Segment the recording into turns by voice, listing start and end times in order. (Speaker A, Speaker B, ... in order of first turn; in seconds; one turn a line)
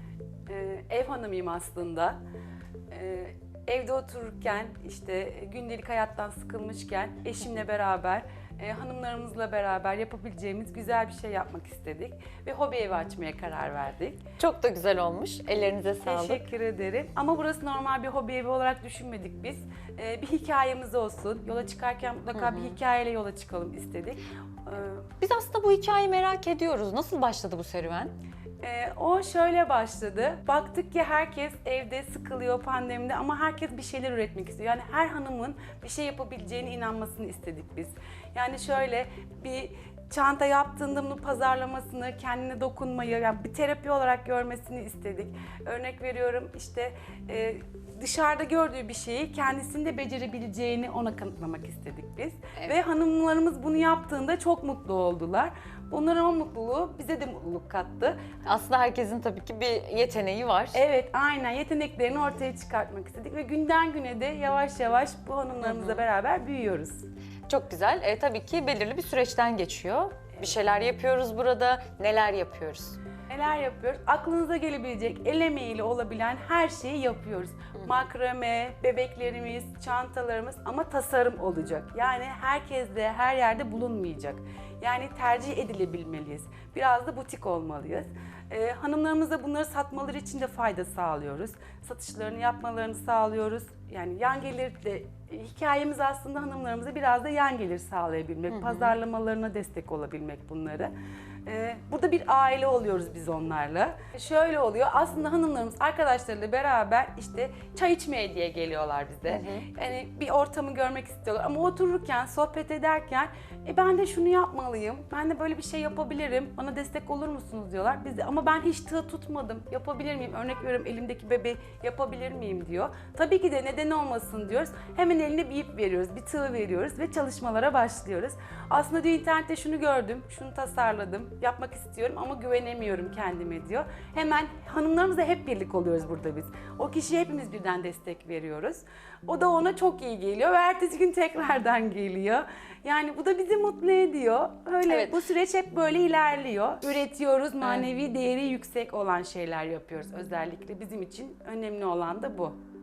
Speaker A: 0.5-2.2
Speaker A: 2.9-14.2
Speaker B: 14.4-16.4
Speaker A: 16.0-25.1
Speaker B: 22.3-22.8
Speaker B: 25.2-28.1
Speaker A: 28.6-58.3
Speaker B: 58.5-60.8
Speaker A: 60.7-67.0
Speaker B: 65.6-66.0
Speaker B: 67.5-73.0
Speaker A: 73.3-100.9
Speaker B: 98.5-99.0
Speaker A: 101.5-152.6
Speaker B: 109.3-109.7
Speaker B: 144.9-145.1